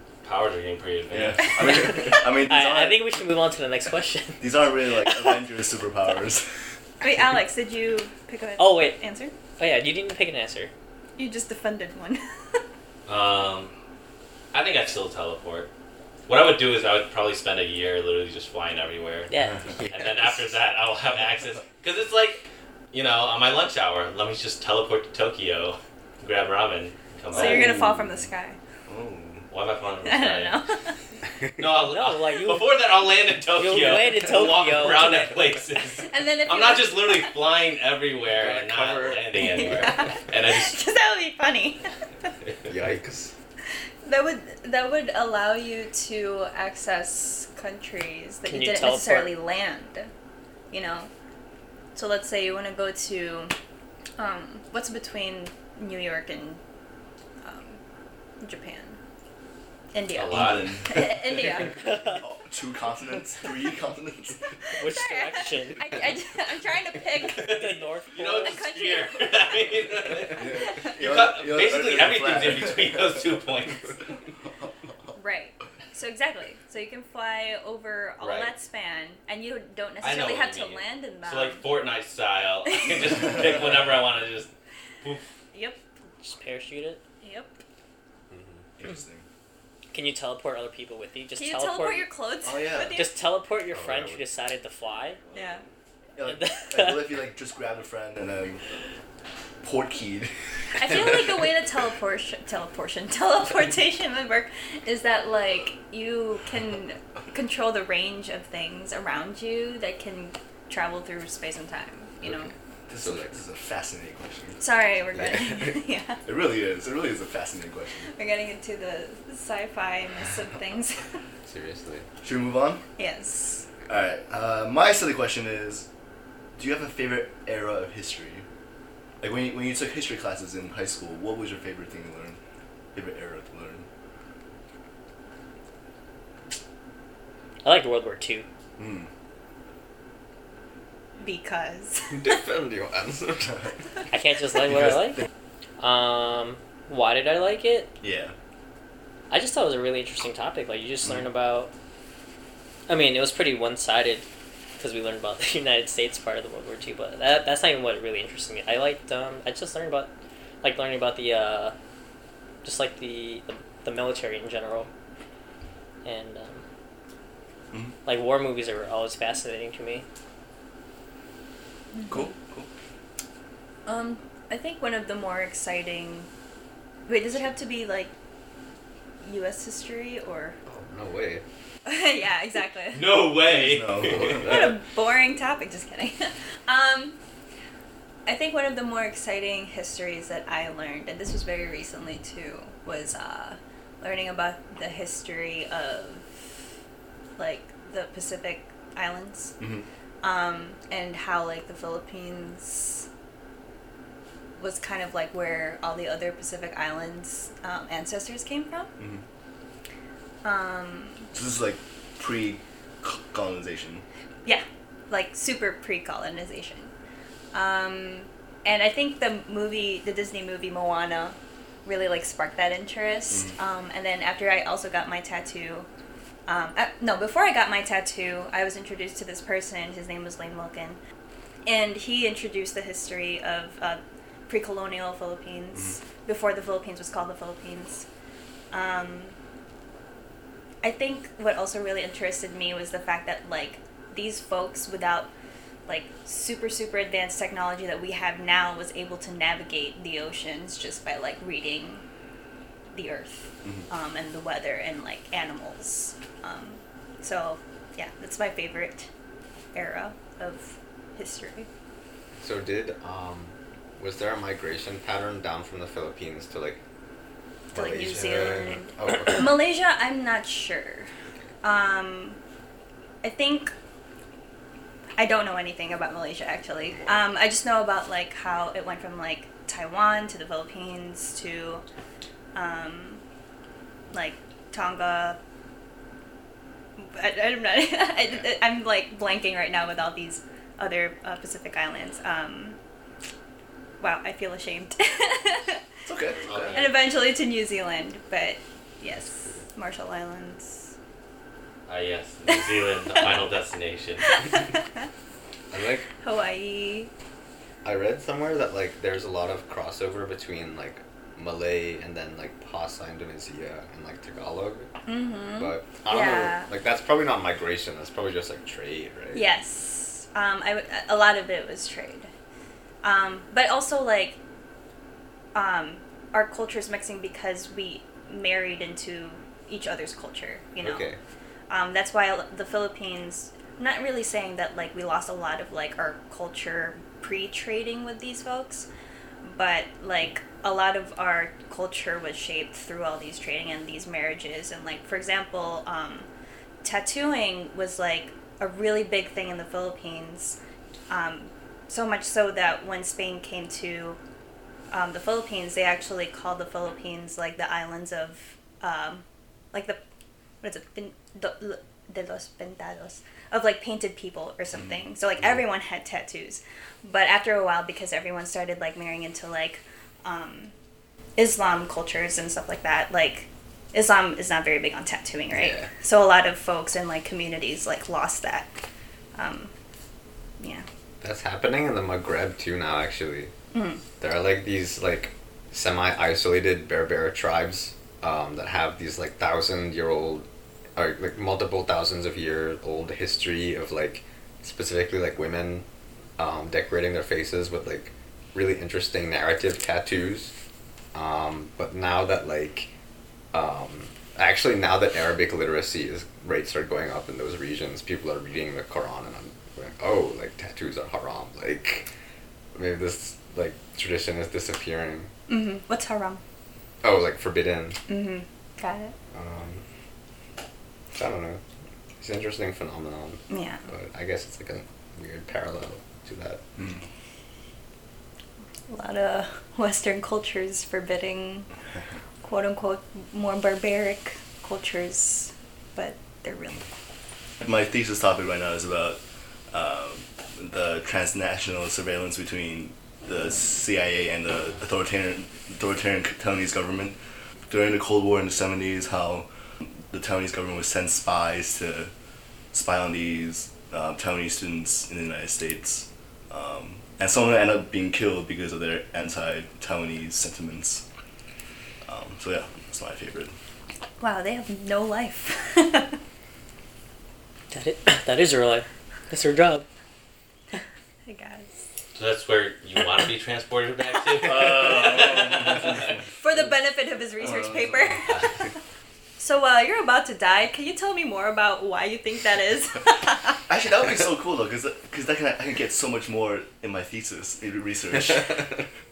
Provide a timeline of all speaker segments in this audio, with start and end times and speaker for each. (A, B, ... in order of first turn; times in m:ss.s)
0:00.2-0:01.9 A
0:01.1-0:03.1 B
0:01.6-0:05.2 C
0:04.4-0:06.5 B
0:07.0-0:09.3 D
0:08.6-0:09.0 C
0:09.6-0:10.7 C
0:11.2-0:12.6 D
0:13.1-0:13.7 A
0:14.5-0:15.7 A
0:16.3-0:19.3 A
0:19.3-0:19.6 C
0:19.4-0:19.8 B
0:19.7-0:20.4 E
0:19.9-0:27.7 A
0:27.3-0:28.6 D
0:27.4-0:28.2 B
0:28.9-0:29.5 B
0:29.5-0:30.6 A
0:30.0-0:30.9 D
0:31.6-0:40.8 A
0:31.8-0:32.7 C
0:33.5-0:35.3 C
0:35.9-0:37.4 D
0:38.3-0:39.6 E
0:39.4-0:41.9 D
0:42.7-0:43.3 E
0:44.0-0:50.1 D
0:48.5-0:49.3 C
0:50.7-0:51.1 D
0:51.9-0:53.5 D
0:54.2-0:56.6 D
0:57.4-0:57.8 D
0:58.4-0:59.0 D
0:59.9-1:01.8 D
1:00.1-1:00.8 A
1:00.3-1:01.6 B
1:01.7-1:02.2 C
1:02.2-1:04.5 B
1:04.7-1:07.6 D
1:04.7-1:06.0 C
1:07.2-1:14.0 A
1:07.3-1:08.6 C
1:08.4-1:09.6 D
1:10.3-1:11.0 D
1:10.4-1:13.1 B
1:15.1-1:21.6 D
1:18.2-1:18.5 A
1:20.0-1:24.5 A
1:25.5-1:25.8 D
1:26.2-1:27.0 C
1:27.2-1:27.5 D
1:28.3-1:28.6 E
1:28.8-1:29.2 B
1:29.9-1:32.1 C
1:31.4-1:33.2 D
1:32.4-1:33.0 B
1:32.9-1:35.2 C
1:33.7-1:34.2 E
1:35.3-1:35.6 D
1:36.2-1:38.6 B
1:36.2-1:37.2 C
1:39.6-1:41.2 B
1:40.8-1:52.5 D
1:52.2-1:53.4 E
1:52.9-1:54.6 B
1:54.6-1:56.2 D
1:55.1-1:55.8 E
1:56.2-1:58.1 B
1:58.1-2:01.2 D
2:01.4-2:02.0 E
2:02.2-2:02.8 B
2:03.0-2:03.7 D
2:03.9-2:05.9 B
2:06.6-2:08.4 B
2:09.2-2:12.4 B
2:12.9-2:13.8 B
2:17.6-2:18.4 C
2:18.8-2:19.1 B
2:21.2-2:22.4 D
2:22.1-2:23.6 E
2:24.1-2:25.2 C
2:25.8-2:27.9 C
2:28.0-2:28.3 B
2:29.3-2:31.7 C
2:32.9-2:34.2 C
2:34.8-2:41.7 C
2:42.6-2:44.9 C
2:46.0-2:46.6 C
2:48.0-2:50.0 C
2:51.9-2:52.2 D
2:52.1-2:52.7 B
2:53.8-2:56.3 D
2:57.1-2:58.1 D
2:59.2-3:00.6 D
3:00.6-3:01.4 E
3:01.8-3:03.0 D
3:02.9-3:04.5 A
3:03.5-3:04.6 B
3:04.1-3:04.8 E
3:04.4-3:07.2 D
3:08.2-3:16.4 D
3:17.4-3:19.6 D
3:19.6-3:19.8 B
3:20.2-3:23.1 D
3:24.6-3:28.9 D
3:30.4-3:31.3 D
3:31.3-3:34.0 B
3:34.4-3:36.9 D
3:37.5-3:45.9 D
3:46.4-3:51.0 D
3:51.6-3:58.0 D
3:58.7-3:59.3 D
4:00.8-4:05.3 D
4:05.8-4:12.0 D
4:12.9-4:19.1 D
4:19.7-4:21.7 D
4:22.4-4:26.8 E
4:27.7-4:29.6 E
4:27.7-4:31.1 D
4:31.6-4:32.4 D
4:33.2-4:33.7 D
4:35.2-4:41.8 D
4:42.5-4:43.2 D
4:44.1-4:45.4 D
4:47.0-4:52.8 D
4:54.0-4:55.9 D
4:56.0-4:56.9 B
4:56.4-4:56.9 A
4:56.7-5:00.9 D
5:01.9-5:04.4 A
5:02.5-5:03.3 D
5:04.2-5:05.1 D
5:05.7-5:06.1 E
5:06.1-5:07.1 D
5:07.8-5:14.9 E
5:15.0-5:16.7 D
5:15.6-5:19.5 E
5:19.3-5:22.3 D
5:23.0-5:24.4 D
5:25.5-5:31.1 D
5:30.8-5:31.2 E
5:31.7-5:38.9 D
5:39.4-5:46.3 D
5:46.8-5:50.6 D
5:51.1-5:54.2 D
5:54.9-6:00.0 D
6:00.6-6:10.7 D
6:11.4-6:18.7 D
6:15.5-6:15.9 E
6:19.4-6:19.7 D
6:20.6-6:20.8 D
6:21.2-6:23.5 E
6:23.7-6:24.0 D
6:24.2-6:35.8 E
6:36.4-6:40.5 E
6:41.1-6:42.9 E
6:43.5-6:52.1 E
6:52.7-6:55.3 E
6:55.5-6:56.4 D
6:57.0-6:58.0 E
6:58.1-6:59.1 D
6:59.3-6:59.8 E
7:01.1-7:01.6 E
7:02.2-7:06.6 E
7:03.5-7:03.8 D
7:08.9-7:11.7 D
7:12.4-7:16.8 D
7:17.6-7:19.2 B
7:19.7-7:27.2 B
7:27.7-7:32.1 B
7:32.7-7:41.0 B
7:42.0-7:43.5 B
7:44.2-7:46.2 D
7:47.7-7:49.8 C
7:51.2-7:51.8 D
7:52.1-7:56.1 A
7:54.5-7:56.2 B
7:56.4-7:58.7 D
7:57.4-7:58.1 B
7:59.4-8:03.6 D
8:03.7-8:08.8 B